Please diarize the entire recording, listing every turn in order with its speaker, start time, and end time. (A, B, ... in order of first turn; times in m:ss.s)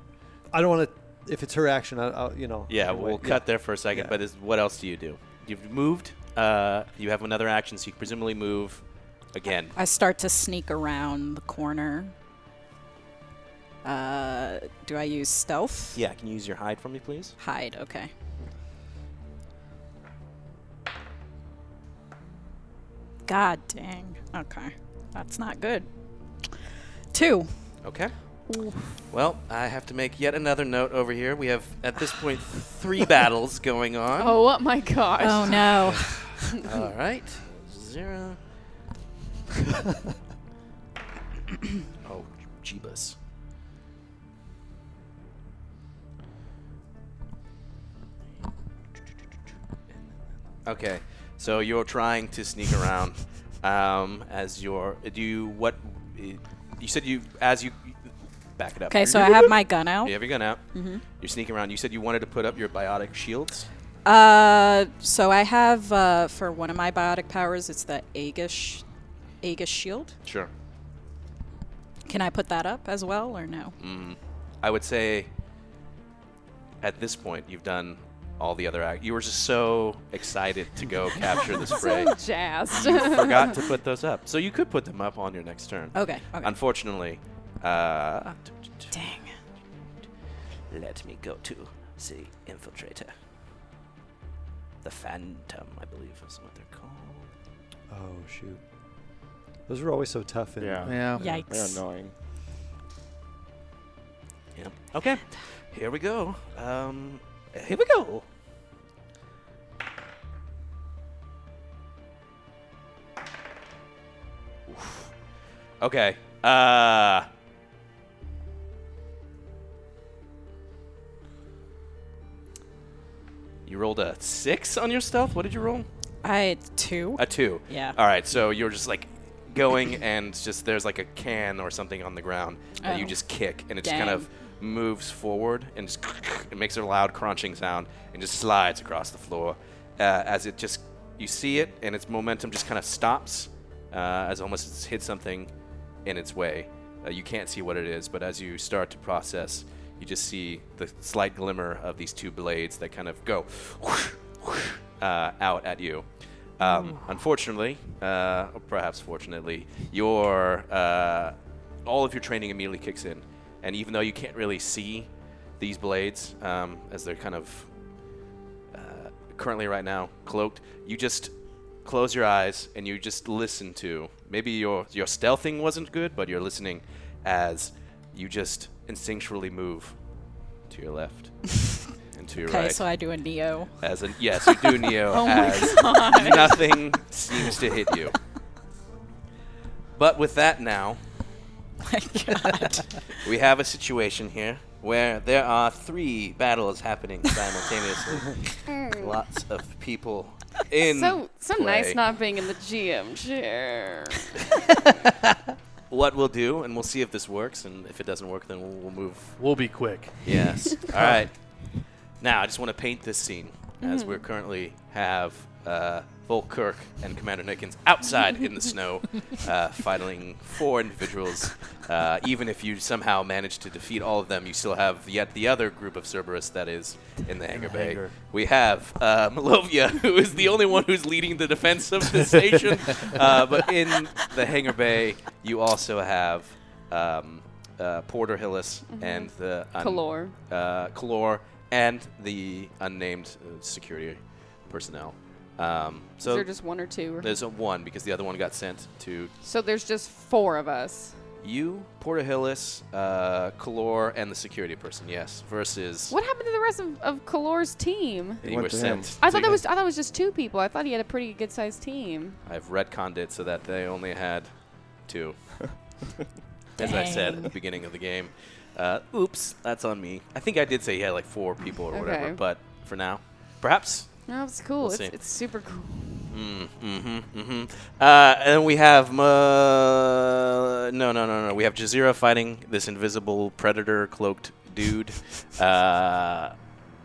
0:00.5-0:04.2 A
0:02.7-0:09.7 B
0:09.7-0:12.1 C
0:13.8-0:16.0 C
0:15.9-0:17.4 B
0:17.4-0:18.1 C
0:23.2-0:25.9 C
0:27.1-0:27.5 C
0:27.8-0:28.2 B
0:28.5-0:28.9 C
0:29.1-0:34.4 B
0:34.2-0:35.8 D
0:35.2-0:36.4 C
0:35.8-0:38.4 B
0:42.0-0:43.2 B
0:50.6-0:58.0 B
0:58.6-1:03.7 B
0:58.9-1:01.0 C
1:04.0-1:08.8 C
1:09.4-1:10.1 C
1:10.2-1:10.5 B
1:12.1-1:13.7 C
1:13.8-1:15.3 B
1:16.8-1:22.1 B
1:21.7-1:23.5 D
1:22.7-1:28.9 B
1:25.9-1:26.5 C
1:28.9-1:29.3 C
1:30.7-1:33.1 B
1:34.8-1:37.3 B
1:37.9-1:38.6 A
1:39.6-1:41.0 A
1:40.6-1:42.1 E
1:40.8-1:41.4 F
1:41.1-1:41.8 C
1:44.6-1:48.2 B
1:54.7-1:55.1 B
1:55.8-1:57.3 B
2:03.6-2:05.9 B
2:06.2-2:08.0 C
2:07.2-2:25.5 B
2:12.8-2:13.2 C
2:13.8-2:14.3 C
2:26.0-2:36.0 B
2:36.6-2:47.7 B
2:36.6-2:37.0 C
2:48.7-2:51.3 B
2:51.8-3:00.0 B
3:00.6-3:02.8 B
3:02.4-3:03.7 C
3:03.8-3:08.2 B
3:04.4-3:04.8 C
3:05.1-3:06.7 D
3:09.9-3:11.0 B
3:11.9-3:12.8 C
3:13.2-3:22.0 B
3:18.7-3:19.0 D
3:20.8-3:24.3 D
3:25.9-3:29.4 B
3:29.4-3:30.4 F
3:30.2-4:09.3 B
3:33.8-3:34.2 D
3:47.5-3:48.2 F
3:58.9-4:00.3 D
4:06.2-4:07.3 D
4:09.4-4:11.1 D
4:11.4-4:16.2 B
4:16.1-4:18.4 D
4:18.4-4:19.1 E
4:18.4-4:19.6 B
4:19.2-4:22.4 D
4:22.4-4:26.0 B
4:26.8-4:27.5 C
4:26.8-4:35.1 B
4:31.9-4:32.4 D
4:34.3-4:36.2 D
4:36.3-4:46.5 B